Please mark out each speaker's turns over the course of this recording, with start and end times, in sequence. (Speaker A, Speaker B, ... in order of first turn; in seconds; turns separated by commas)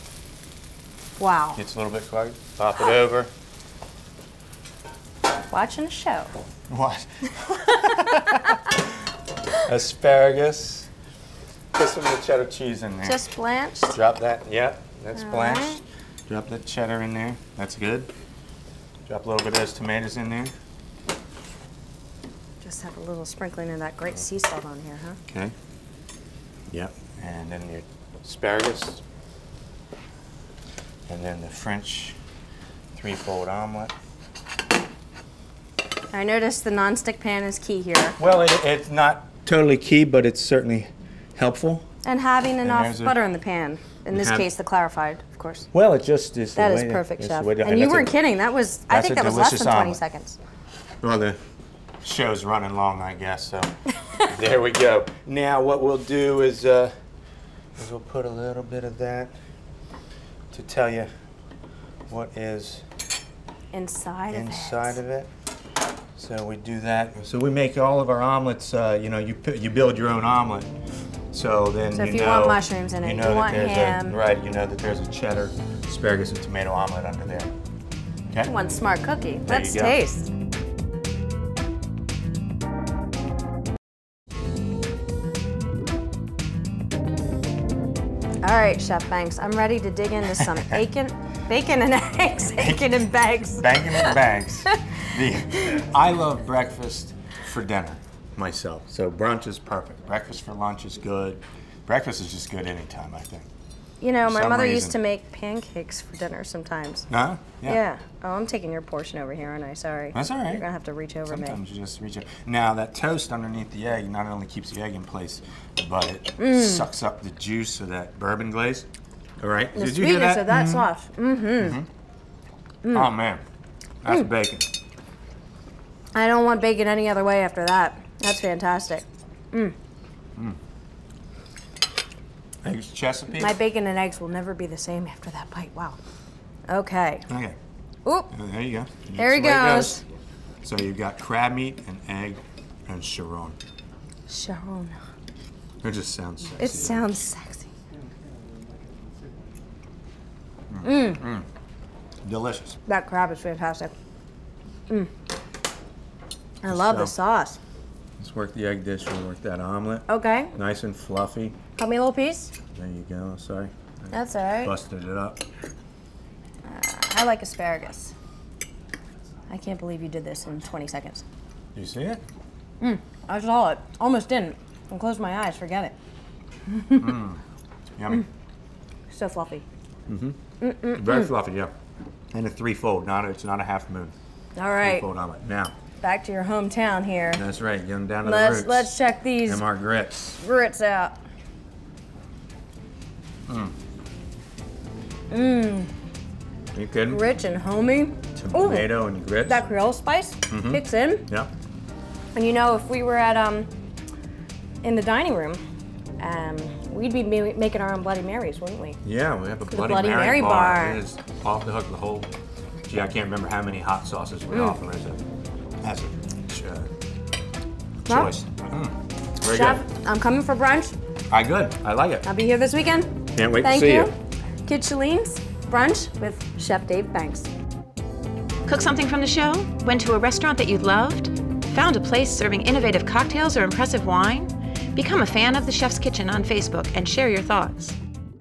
Speaker A: 1.2-1.6, Speaker B: 1.6-3.3, Speaker A: 5.5-6.3, Speaker B: 6.7-8.9, Speaker A: 7.5-8.6, Speaker B: 9.6-10.9, Speaker B: 11.7-13.2, Speaker A: 13.0-14.0, Speaker B: 13.9-18.1, Speaker A: 15.2-15.8, Speaker B: 19.1-20.5, Speaker A: 22.6-25.2, Speaker B: 25.3-25.5, Speaker B: 26.7-29.0, Speaker B: 31.1-32.2, Speaker B: 32.9-33.9, Speaker A: 36.1-38.2, Speaker B: 38.2-41.9, Speaker A: 42.0-45.7, Speaker B: 42.6-43.2, Speaker B: 44.1-44.5, Speaker B: 45.7-48.1, Speaker A: 46.5-50.4, Speaker B: 48.9-50.0, Speaker B: 51.0-51.4, Speaker B: 52.0-56.9, Speaker B: 57.8-59.3, Speaker B: 60.5-61.1, Speaker B: 62.1-62.8, Speaker A: 63.7-65.0, Speaker B: 64.3-65.3, Speaker B: 66.2-70.7, Speaker B: 71.3-77.5, Speaker A: 71.9-74.2, Speaker A: 78.4-80.3, Speaker B: 79.5-80.0, Speaker A: 88.4-95.0, Speaker B: 90.3-90.8, Speaker B: 93.5-103.5, Speaker A: 104.0-107.1, Speaker B: 104.2-105.0, Speaker B: 107.1-107.8, Speaker A: 107.6-111.6, Speaker B: 110.1-110.6, Speaker B: 111.3-118.9, Speaker A: 116.4-116.8, Speaker B: 119.4-120.9, Speaker A: 119.7-121.8, Speaker B: 121.6-121.9, Speaker A: 122.8-123.1, Speaker B: 122.9-123.4, Speaker B: 124.0-124.7, Speaker A: 126.1-129.7, Speaker B: 132.6-133.6, Speaker A: 133.3-136.0, Speaker A: 136.7-137.2, Speaker B: 137.3-137.6, Speaker A: 138.0-138.3, Speaker B: 138.3-140.0, Speaker A: 139.2-140.0, Speaker B: 140.6-143.6, Speaker A: 144.3-144.9, Speaker B: 145.8-147.1, Speaker A: 146.6-147.7, Speaker B: 150.7-151.4, Speaker A: 150.8-151.2, Speaker B: 152.2-152.8, Speaker A: 152.8-153.9, Speaker A: 156.6-157.6, Speaker B: 156.7-157.1, Speaker B: 158.2-161.6, Speaker A: 160.1-160.5, Speaker A: 161.8-162.5, Speaker B: 162.7-165.4, Speaker A: 164.1-164.7, Speaker A: 166.7-168.1, Speaker A: 169.5-171.2, Speaker B: 171.7-172.2, Speaker A: 172.8-175.9, Speaker A: 176.7-177.2, Speaker B: 177.0-177.4, Speaker B: 178.0-178.2, Speaker A: 179.1-179.6, Speaker B: 180.1-180.4, Speaker A: 180.6-181.3, Speaker B: 180.9-181.7, Speaker B: 182.3-184.1, Speaker A: 184.6-185.1, Speaker B: 184.8-185.7, Speaker A: 186.0-187.4, Speaker B: 187.3-190.4, Speaker A: 188.2-189.6, Speaker A: 190.4-191.2, Speaker B: 193.5-193.7, Speaker A: 195.3-195.9, Speaker B: 196.7-197.2, Speaker A: 197.1-198.9, Speaker B: 198.3-199.6, Speaker A: 199.4-201.2, Speaker B: 200.5-201.5, Speaker A: 202.3-203.7, Speaker A: 204.8-205.6, Speaker A: 206.2-209.0, Speaker B: 209.0-212.3, Speaker A: 209.7-211.0, Speaker B: 212.8-215.2, Speaker A: 214.5-214.8, Speaker B: 215.8-216.9, Speaker B: 218.0-219.8, Speaker A: 219.4-220.9, Speaker B: 221.3-222.2, Speaker A: 222.2-224.1, Speaker B: 223.3-224.1, Speaker A: 224.6-227.5, Speaker C: 228.7-237.9